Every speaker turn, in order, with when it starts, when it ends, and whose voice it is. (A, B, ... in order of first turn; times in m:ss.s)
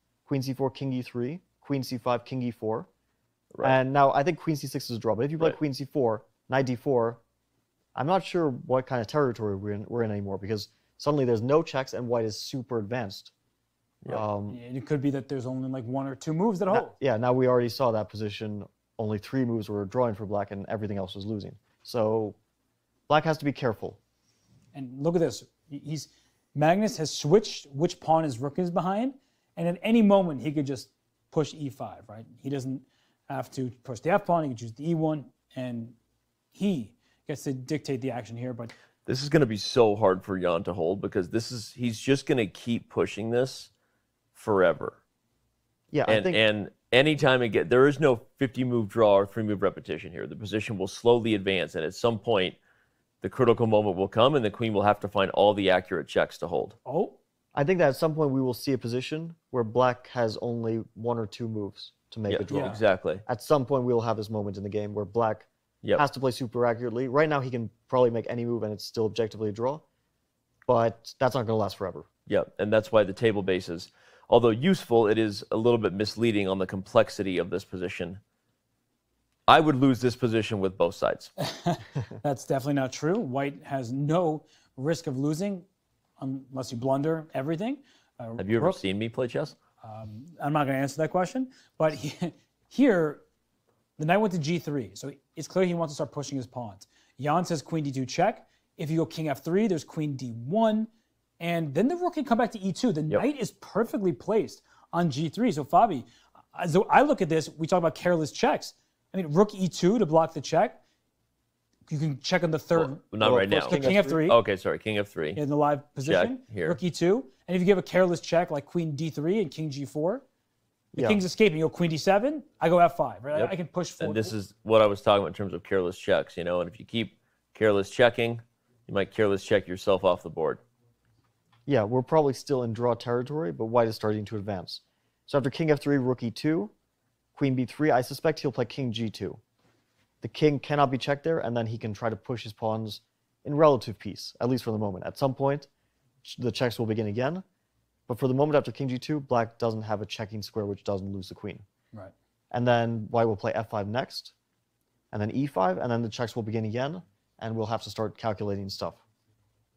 0:00.3-0:02.9 A
0:03.6-0:07.2 A
0:07.9-0:13.3 A
0:14.1-0:14.6 A
0:14.5-0:16.9 B
0:16.7-0:22.4 A
0:23.1-0:24.0 A
0:24.7-0:35.9 B
0:36.5-0:38.7 B
0:39.0-0:43.7 C
0:44.3-0:45.0 C
0:45.9-0:46.4 A
0:46.1-0:52.6 C
0:53.2-0:56.7 C
0:56.8-0:57.2 B
0:57.5-1:09.8 A
1:02.3-1:03.2 C
1:02.5-1:02.8 B
1:10.7-1:12.1 A
1:12.3-1:18.2 C
1:19.5-1:21.3 C
1:21.4-1:25.6 B
1:26.2-1:28.8 B
1:28.4-1:29.6 C
1:29.8-1:33.2 B
1:34.0-1:40.9 B
1:41.4-1:50.8 B
1:51.9-1:53.0 B
1:52.7-1:55.4 C
1:53.2-1:54.3 A
1:53.5-1:54.4 B
1:55.3-2:00.2 B
1:56.0-1:56.8 C
2:00.9-2:01.2 A
2:01.0-2:04.3 B
2:03.3-2:10.6 C
2:11.7-2:16.7 A
2:17.4-2:19.4 A
2:20.2-2:25.7 A
2:26.2-2:27.4 A
2:28.1-2:31.6 A
2:32.5-2:34.3 A
2:35.1-2:39.0 A